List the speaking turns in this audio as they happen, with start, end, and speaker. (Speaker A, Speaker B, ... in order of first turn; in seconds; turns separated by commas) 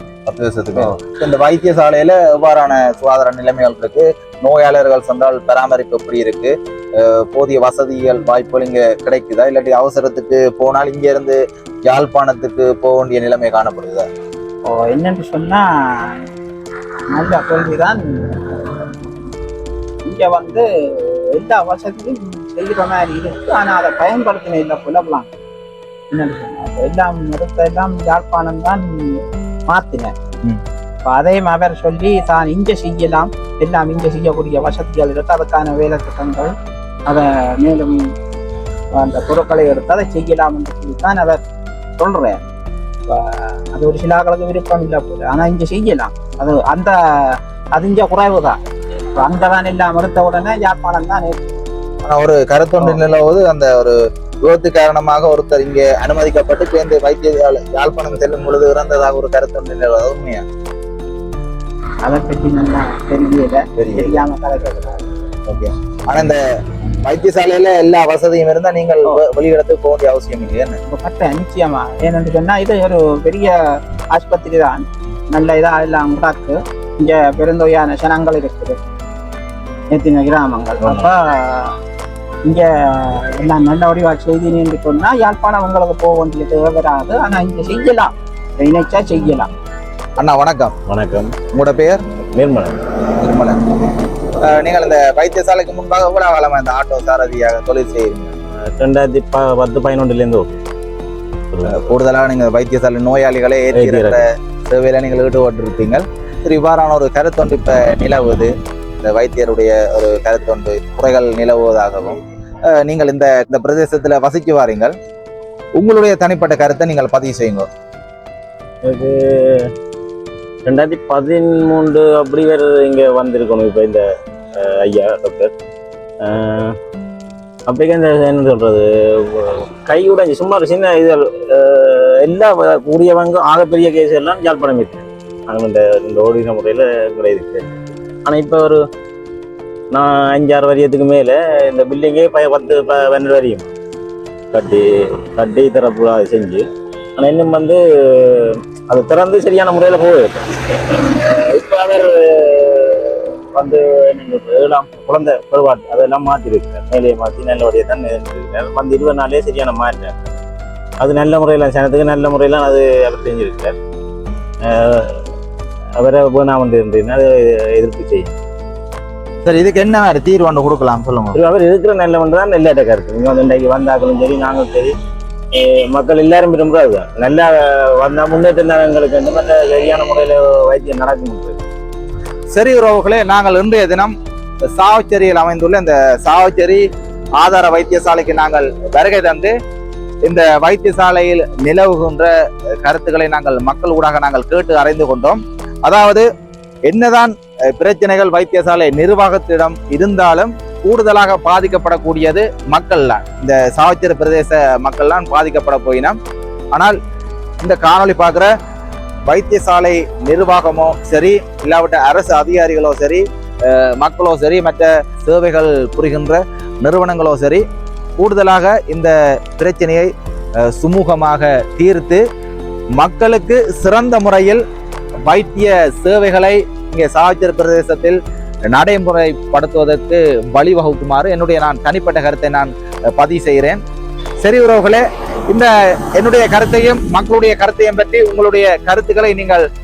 Speaker A: 0.2-14.0, Speaker B: 14.7-16.2, Speaker B: 17.1-18.8, Speaker B: 20.0-25.3, Speaker B: 26.1-30.1, Speaker B: 31.1-36.5, Speaker B: 37.1-38.0, Speaker B: 39.0-41.4, Speaker B: 42.0-42.4, Speaker B: 43.1-48.5, Speaker B: 49.1-51.6, Speaker A: 52.0-60.4, Speaker B: 62.0-65.1, Speaker A: 63.8-64.2, Speaker A: 65.5-66.4, Speaker A: 67.0-70.8, Speaker B: 70.9-73.5, Speaker B: 74.1-78.8, Speaker B: 79.9-81.8, Speaker B: 82.5-89.5, Speaker A: 90.2-90.7, Speaker C: 90.9-91.4, Speaker A: 91.5-92.0, Speaker C: 92.3-92.8, Speaker A: 93.1-93.8, Speaker A: 94.4-98.3, Speaker C: 98.8-100.6, Speaker C: 101.5-101.9, Speaker A: 101.7-112.2, Speaker C: 103.7-104.2, Speaker A: 112.7-114.9, Speaker A: 115.8-117.7, Speaker C: 118.8-119.7, Speaker C: 120.7-124.0, Speaker C: 124.6-125.5, Speaker C: 126.2-126.8, Speaker C: 127.7-138.8, Speaker C: 139.9-143.7, Speaker C: 144.5-146.6, Speaker C: 147.2-160.3, Speaker C: 161.0-163.8, Speaker C: 164.6-165.2, Speaker C: 166.0-168.3, Speaker A: 169.4-171.4, Speaker C: 171.3-174.9, Speaker C: 175.5-181.6, Speaker A: 182.5-184.1, Speaker A: 184.7-186.8, Speaker A: 187.4-189.5, Speaker A: 190.2-192.3, Speaker A: 192.8-196.2, Speaker A: 196.9-206.2, Speaker A: 207.6-208.5, Speaker A: 209.3-217.6, Speaker A: 218.2-220.1, Speaker A: 220.7-222.2, Speaker A: 223.0-224.6, Speaker A: 225.3-228.2, Speaker A: 228.7-233.8, Speaker A: 234.4-239.6